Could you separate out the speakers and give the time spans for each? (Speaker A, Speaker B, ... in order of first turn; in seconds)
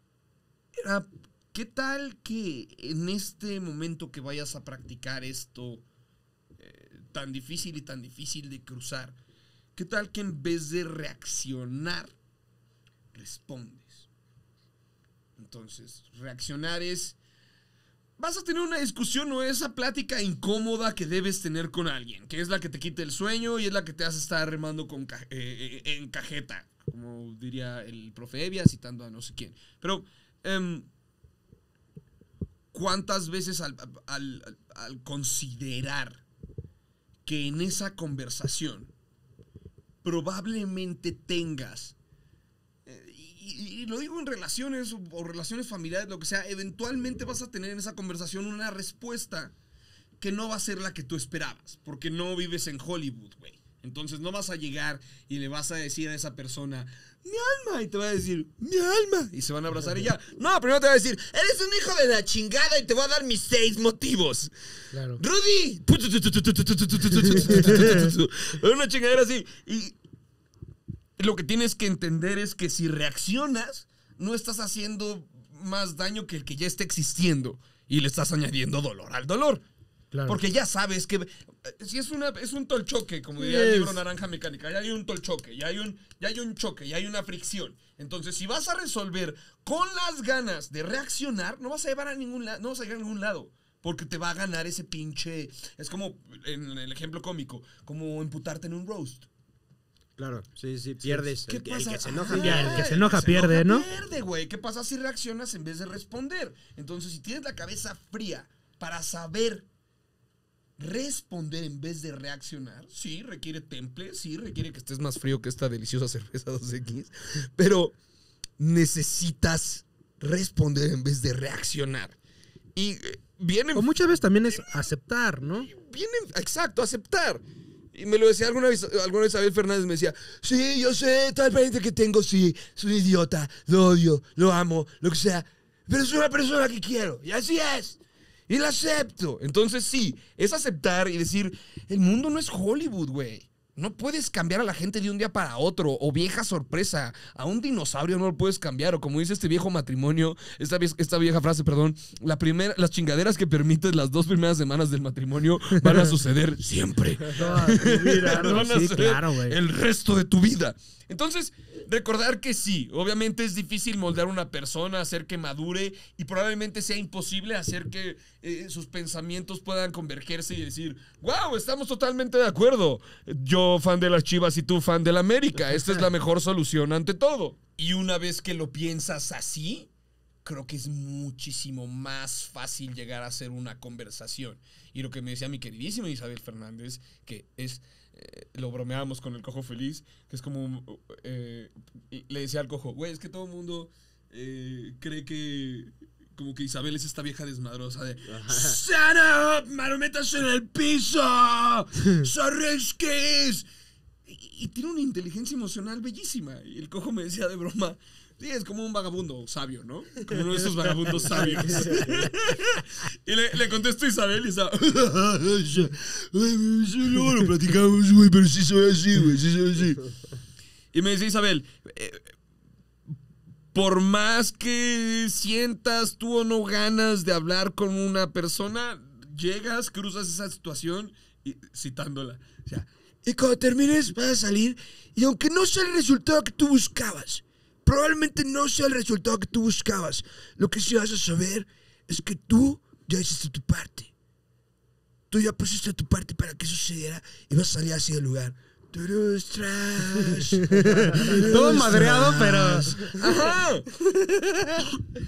Speaker A: 0.8-5.8, 6.6-9.2, 9.8-12.1, 13.1-14.1, 15.4-17.1, 18.2-30.9, 32.7-36.2, 37.2-38.9, 40.0-41.9, 42.9-49.5, 50.2-64.5, 65.2-69.9, 71.2-79.6, 80.3-99.3, 101.5-109.6, 110.8-117.9, 118.6-122.2, 122.7-123.9, 125.7-127.4, 127.9-138.0, 138.5-179.9, 180.4-203.7, 204.3-220.1, 220.9-222.3, 223.7-244.1, 245.3-253.9
Speaker B: 64.9-65.2, 67.2-68.1, 80.1-80.4, 83.4-84.0, 102.3-103.8, 123.7-125.7, 157.3-159.6, 211.6-211.9, 250.5-253.2
Speaker C: 100.2-102.9, 198.2-198.8